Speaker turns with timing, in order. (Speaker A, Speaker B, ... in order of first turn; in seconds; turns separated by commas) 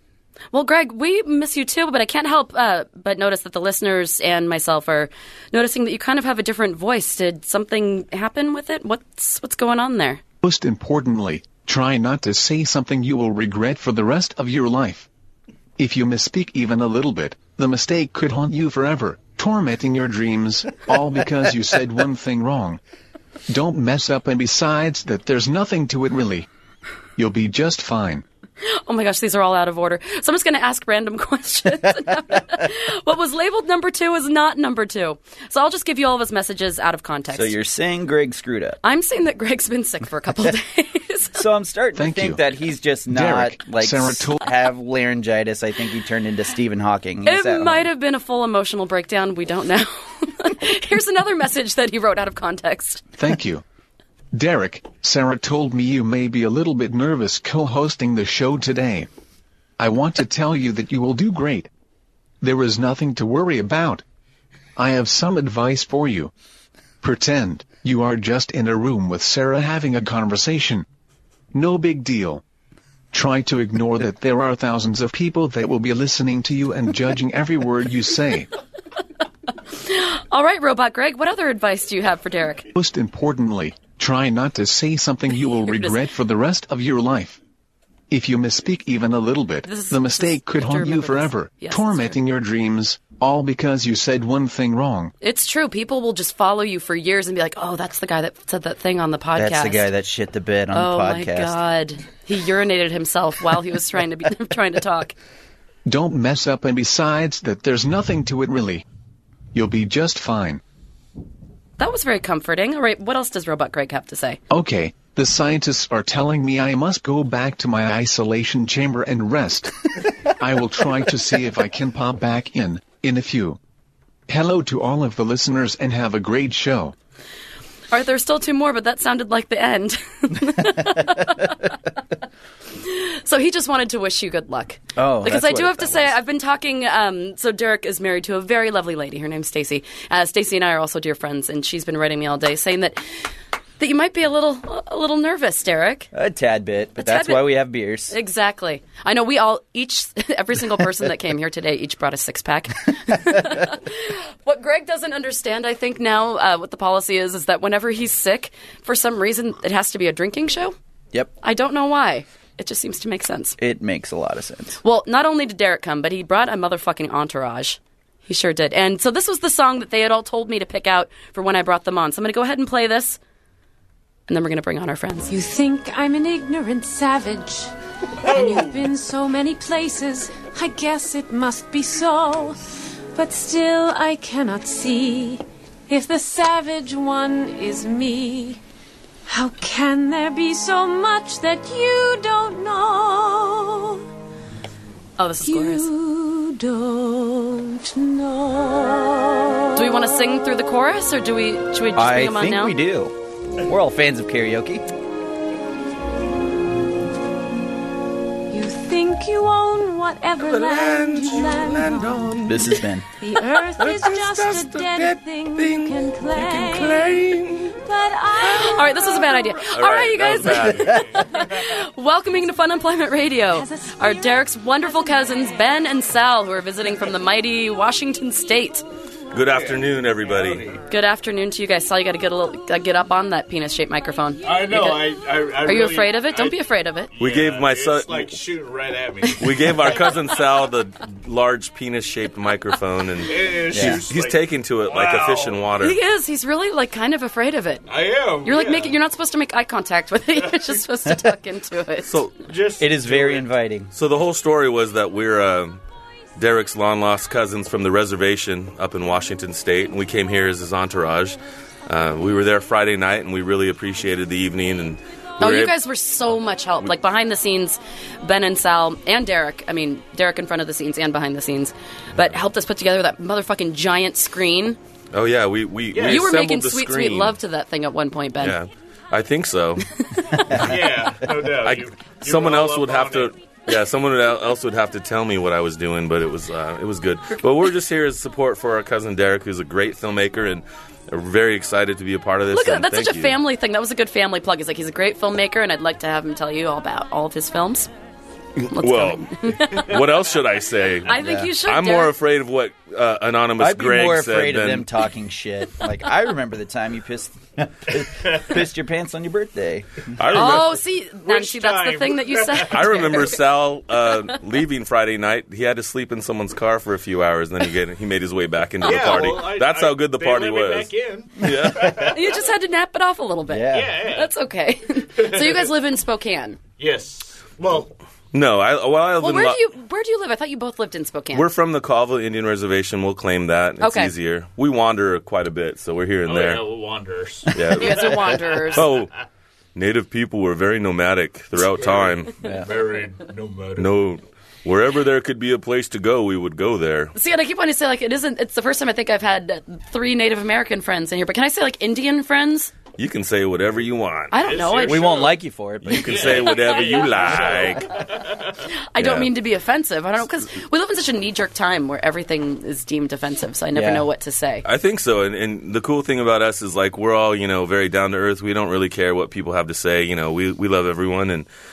Speaker A: 0.5-10.2, Speaker B: 10.4-15.1, Speaker B: 15.8-22.8, Speaker B: 23.5-26.5, Speaker B: 27.2-28.2, Speaker A: 28.6-37.6, Speaker C: 37.3-38.8, Speaker A: 38.8-41.4, Speaker C: 41.3-47.9, Speaker B: 42.0-42.4, Speaker B: 43.1-44.5, Speaker A: 47.2-53.0, Speaker B: 53.2-53.6, Speaker B: 54.3-59.1, Speaker B: 59.8-61.7, Speaker B: 62.4-64.0, Speaker B: 64.8-66.3, Speaker B: 67.0-70.8, Speaker B: 71.5-72.4, Speaker B: 73.1-78.5, Speaker A: 79.7-82.7, Speaker B: 82.7-87.4, Speaker A: 85.5-86.0, Speaker B: 88.1-95.1, Speaker A: 89.6-92.2, Speaker A: 95.2-99.9, Speaker C: 99.4-101.6, Speaker A: 100.7-105.1, Speaker B: 105.9-108.8, Speaker B: 109.5-110.6, Speaker A: 111.8-114.4, Speaker B: 114.5-123.6, Speaker B: 124.3-126.9, Speaker A: 127.9-131.8, Speaker A: 132.8-143.1, Speaker C: 134.9-136.2, Speaker A: 143.8-146.1, Speaker C: 146.1-148.2, Speaker A: 147.0-147.5, Speaker A: 148.1-160.8, Speaker A: 161.4-163.6, Speaker C: 163.6-164.8, Speaker A: 164.8-173.2, Speaker A: 174.3-175.3, Speaker D: 175.3-177.7, Speaker D: 178.2-182.6, Speaker E: 178.3-178.7, Speaker D: 183.1-188.6, Speaker D: 189.3-194.0, Speaker A: 195.2-195.9, Speaker D: 195.4-199.8, Speaker A: 199.8-202.8, Speaker C: 201.9-203.1, Speaker C: 203.7-204.8, Speaker D: 208.5-212.5, Speaker F: 210.4-212.8, Speaker C: 212.5-213.1, Speaker D: 213.2-219.3, Speaker F: 213.3-217.8, Speaker A: 218.4-228.8, Speaker F: 219.6-221.2, Speaker E: 220.8-221.2, Speaker D: 223.5-224.4, Speaker F: 229.3-230.8, Speaker E: 229.5-230.8, Speaker A: 230.9-237.1, Speaker E: 234.4-236.6, Speaker E: 237.1-240.2, Speaker F: 237.2-238.3, Speaker F: 239.4-246.0, Speaker E: 243.2-245.7, Speaker C: 243.7-244.0, Speaker A: 245.8-247.9, Speaker E: 247.9-249.0, Speaker A: 248.4-252.2, Speaker E: 250.4-250.7, Speaker F: 252.1-252.3, Speaker E: 252.4-253.5, Speaker C: 252.8-253.9, Speaker F: 253.9-255.8, Speaker F: 256.4-265.8, Speaker A: 265.4-274.8, Speaker F: 275.1-277.4, Speaker E: 275.9-276.3, Speaker A: 276.1-278.6, Speaker F: 278.4-279.9, Speaker A: 280.1-280.6, Speaker F: 280.5-280.8, Speaker E: 280.5-283.3, Speaker F: 281.6-293.4, Speaker A: 292.5-297.9, Speaker F: 298.6-304.9, Speaker A: 298.7-300.0, Speaker A: 301.1-302.1, Speaker C: 301.1-301.5, Speaker C: 303.6-310.1, Speaker E: 308.0-308.5, Speaker F: 310.2-310.8, Speaker E: 310.2-310.7, Speaker A: 310.3-313.4, Speaker E: 311.2-313.1, Speaker F: 312.7-322.1, Speaker E: 318.8-322.4, Speaker C: 321.6-321.9, Speaker A: 322.1-326.6, Speaker C: 323.5-324.0, Speaker E: 323.7-324.3, Speaker E: 325.2-325.7, Speaker E: 326.8-327.9, Speaker F: 328.3-329.6, Speaker A: 329.2-331.5, Speaker F: 331.3-336.7, Speaker A: 333.8-334.1, Speaker E: 336.3-339.0, Speaker F: 337.5-339.1, Speaker A: 337.8-338.9, Speaker F: 339.8-342.3, Speaker E: 341.8-343.9, Speaker C: 342.4-342.7, Speaker F: 343.8-347.1, Speaker A: 347.1-352.7, Speaker F: 353.0-354.4, Speaker A: 354.3-355.1, Speaker E: 354.4-355.4, Speaker C: 354.8-356.5, Speaker F: 355.9-358.0, Speaker E: 355.9-358.6, Speaker A: 356.5-357.2, Speaker A: 358.9-364.6, Speaker F: 359.0-359.3, Speaker C: 363.7-364.0, Speaker F: 364.6-371.5